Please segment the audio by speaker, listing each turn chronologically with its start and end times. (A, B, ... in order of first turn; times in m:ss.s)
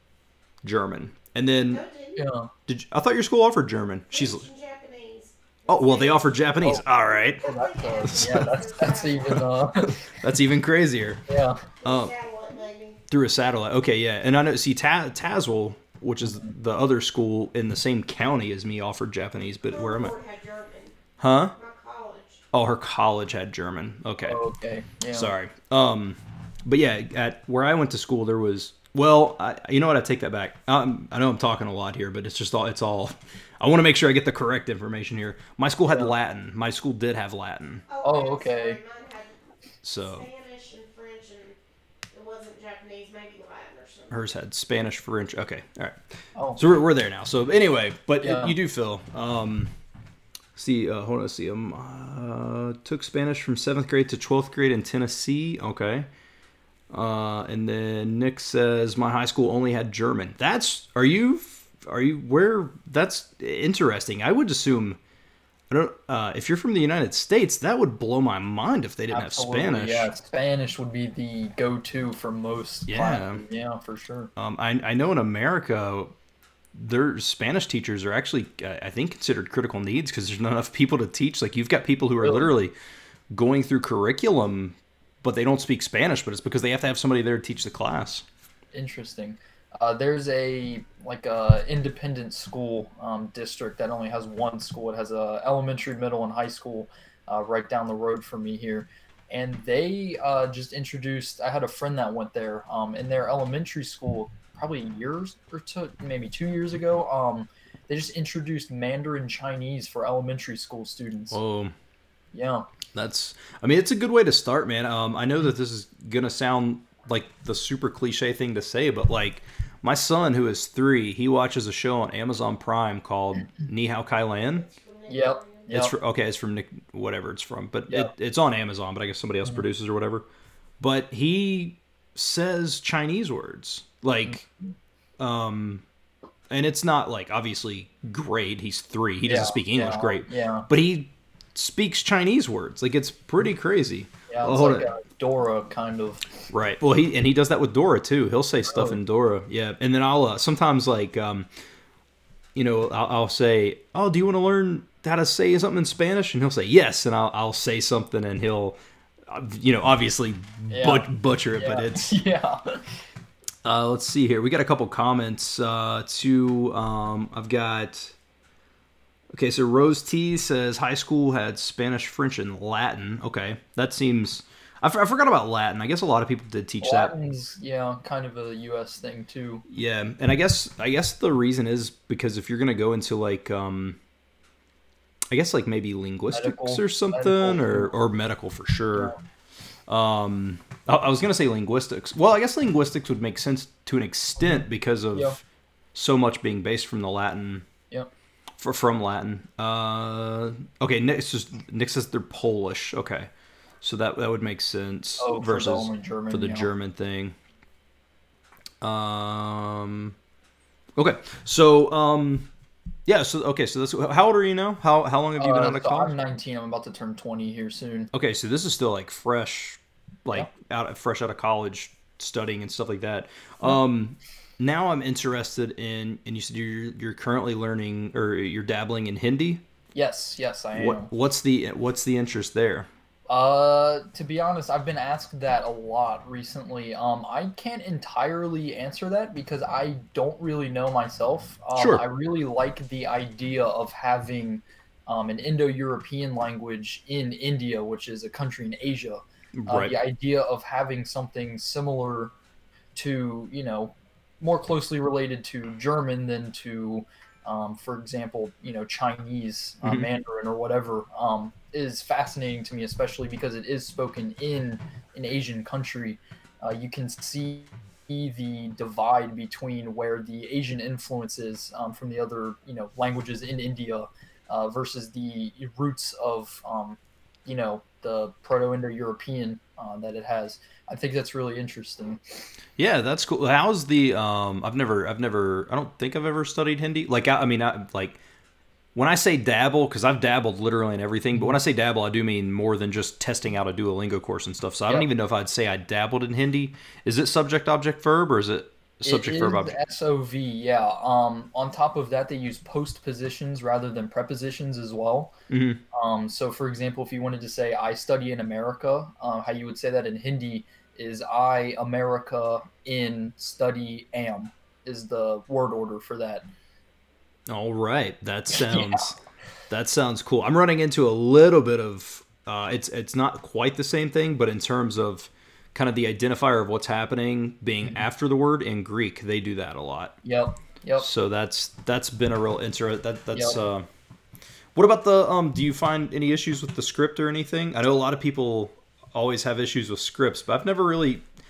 0:00.6-0:01.8 A
0:01.7-0:02.2 B
0:02.2-0:02.5 C
0:02.7-0:04.4 A
0:04.1-0:09.7 B
0:05.7-0:07.4 A
0:07.4-0:10.0 C
0:08.0-0:08.5 A
0:09.3-0:11.2 A
0:11.3-0:11.6 C
0:11.8-0:13.0 B
0:11.8-0:12.1 A
0:13.1-0:20.2 A
0:19.7-0:21.0 B
0:21.2-0:21.5 A
0:21.5-0:22.4 B
0:22.5-0:24.4 A
0:24.2-0:25.3 C
0:25.1-0:37.8 A
0:35.9-0:36.1 C
0:37.9-0:39.4 B
0:38.0-0:38.8 C
0:39.8-0:40.3 A
0:40.0-0:41.6 B
0:42.1-0:44.2 B
0:44.1-0:46.0 A
0:46.4-0:46.6 C
0:46.6-0:49.7 A
0:48.2-0:48.6 C
0:50.6-0:56.1 A
0:56.9-1:05.0 A
1:05.7-1:10.1 A
1:09.1-1:14.3 C
1:12.9-1:13.4 A
1:14.4-1:16.1 A
1:16.8-1:22.7 A
1:22.2-1:22.5 C
1:23.3-1:28.2 A
1:28.7-1:51.4 C
1:51.3-1:51.7 A
1:52.3-1:52.7 C
1:52.9-2:04.7 A
2:04.5-2:05.7 B
2:05.1-2:05.9 C
2:05.7-2:10.3 A
2:10.8-2:14.5 A
2:15.2-2:15.8 A
2:16.5-2:24.9 A
2:19.3-2:20.7 C
2:24.3-2:26.3 C
2:26.5-2:31.5 A
2:28.7-2:29.0 C
2:32.6-2:42.2 A
2:40.7-2:43.0 C
2:43.6-2:48.2 A
2:49.3-2:57.1 A
2:56.8-2:59.6 C
2:59.7-3:04.0 A
3:05.3-3:09.1 A
3:06.3-3:07.9 C
3:09.9-3:15.4 A
3:14.5-3:15.4 C
3:16.0-3:17.7 A
3:18.6-3:23.3 A
3:23.8-3:27.4 A
3:25.2-3:26.7 C
3:28.8-3:30.2 A
3:31.0-3:32.5 A
3:33.1-3:36.2 A
3:35.4-3:38.1 C
3:38.1-3:49.6 A
3:49.9-3:51.1 C
3:50.7-3:52.9 A
3:53.3-4:12.3 C
4:01.8-4:02.0 A
4:09.6-4:10.0 A
4:13.0-4:42.4 C
4:19.8-4:20.1 A
4:42.8-4:48.2 A
4:49.0-4:59.8 A
4:59.0-5:05.4 C
5:05.5-5:05.8 A
5:05.9-5:16.5 C
5:17.5-5:19.2 A
5:18.5-5:19.0 C
5:19.7-5:30.2 A
5:30.2-5:31.1 C
5:31.0-5:33.9 A
5:33.3-5:33.6 C
5:34.8-5:41.2 A